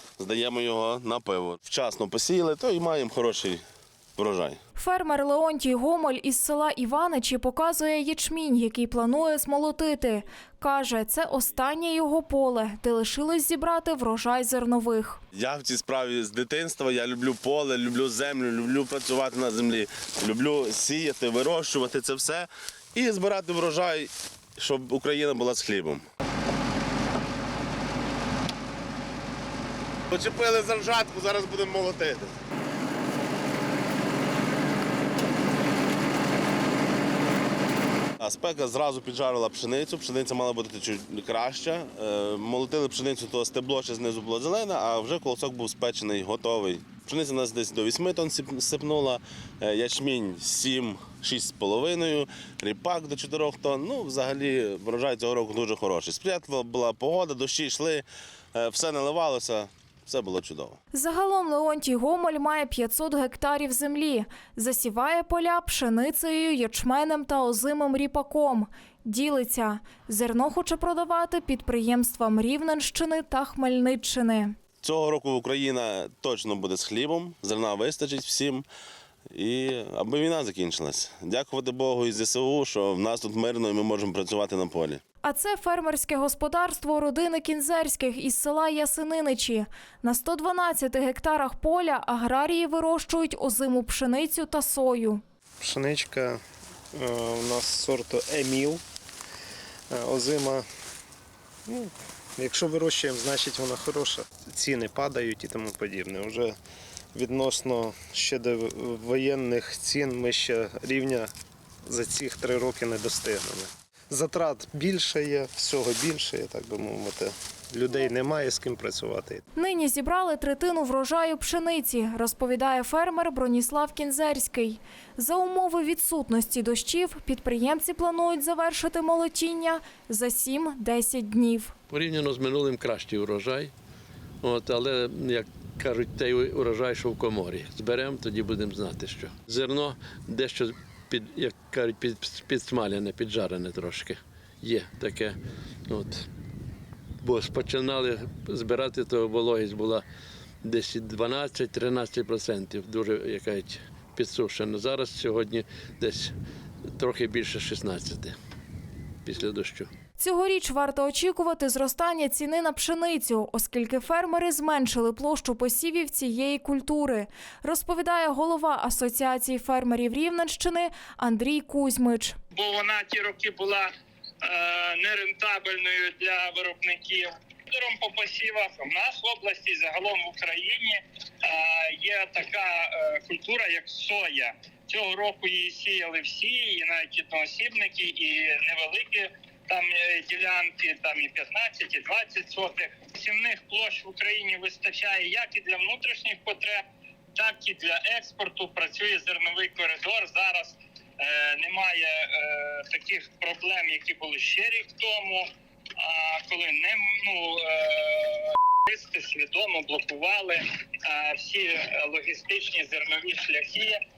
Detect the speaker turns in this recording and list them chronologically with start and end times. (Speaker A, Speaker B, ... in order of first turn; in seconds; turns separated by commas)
Speaker A: 0.2-3.6, Speaker A: 4.2-4.6, Speaker B: 4.8-15.2, Speaker A: 15.3-26.0, Speaker A: 30.1-32.3, Speaker A: 38.2-60.8, Speaker B: 60.9-74.5, Speaker A: 74.8-78.7, Speaker A: 79.3-85.0, Speaker B: 85.2-95.2, Speaker C: 95.6-96.4, Speaker C: 96.9-98.8, Speaker C: 99.9-100.7, Speaker C: 101.7-106.5, Speaker C: 107.1-111.3, Speaker C: 111.9-119.4, Speaker B: 119.5-131.7, Speaker D: 131.9-133.7, Speaker D: 134.4-146.3, Speaker D: 147.2-150.0, Speaker D: 150.6-156.3, Speaker D: 156.9-158.3, Speaker D: 159.2-159.9, Speaker B: 160.2-172.4, Speaker E: 172.5-173.9, Speaker E: 174.4-205.5, Speaker E: 206.0-214.0